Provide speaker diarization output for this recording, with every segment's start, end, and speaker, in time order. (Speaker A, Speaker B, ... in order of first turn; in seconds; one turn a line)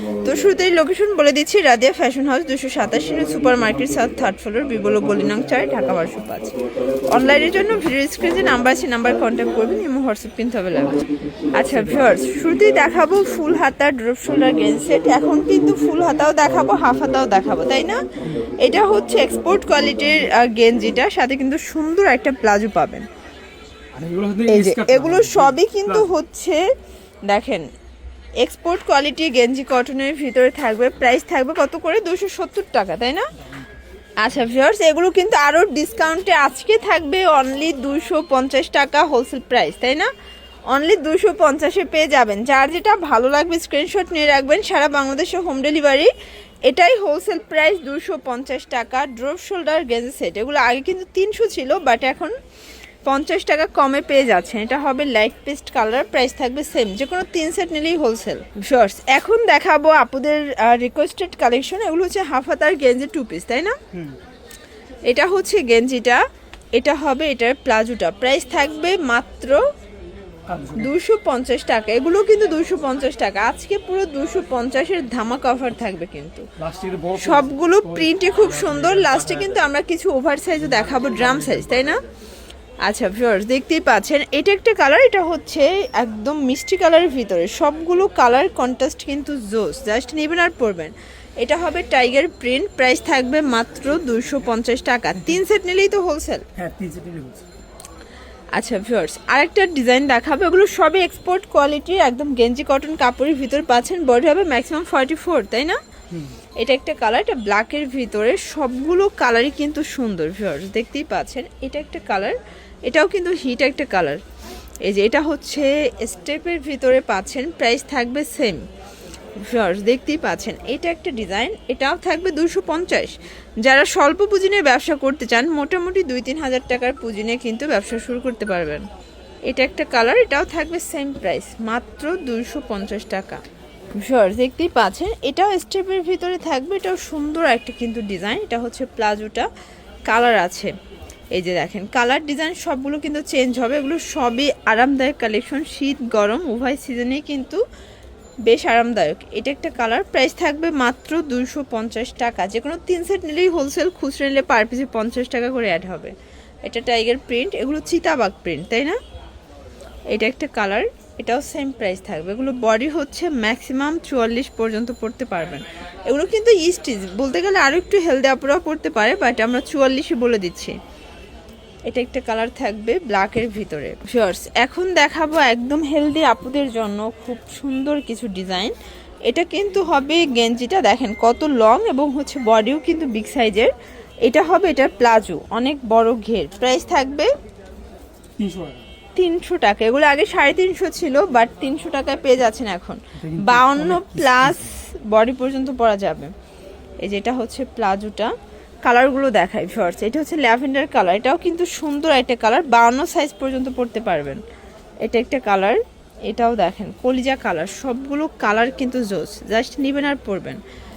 Speaker A: 0.2-6.5
Speaker A: 7.1-11.0
Speaker A: 11.5-18.0
Speaker B: 11.7-12.1
Speaker A: 18.6-23.1
Speaker B: 23.9-26.1
Speaker A: 24.5-26.6
Speaker A: 27.2-27.6
Speaker A: 28.4-33.3
Speaker A: 34.2-40.1
Speaker A: 40.7-46.1
Speaker A: 46.6-52.3
Speaker A: 53.0-63.7
Speaker B: 63.9-64.2
Speaker A: 65.1-66.2
Speaker A: 66.7-69.6
Speaker B: 70.5-70.9
Speaker A: 70.7-76.4
Speaker B: 76.6-78.0
Speaker A: 77.2-82.0
Speaker A: 82.8-96.5
Speaker B: 96.5-97.5
Speaker A: 98.5-105.8
Speaker A: 106.6-114.2
Speaker A: 114.8-118.6
Speaker A: 119.4-128.9
Speaker A: 129.5-133.4
Speaker A: 134.0-139.5
Speaker A: 140.1-140.7
Speaker A: 141.3-147.6
Speaker A: 148.4-156.1
Speaker A: 156.7-159.0
Speaker A: 160.1-170.8
Speaker A: 171.9-178.7
Speaker A: 179.3-183.7
Speaker A: 184.2-187.3
Speaker B: 188.4-188.8
Speaker A: 189.1-196.3
Speaker B: 193.2-194.7
Speaker A: 197.0-198.3
Speaker A: 198.8-204.4
Speaker A: 205.0-210.6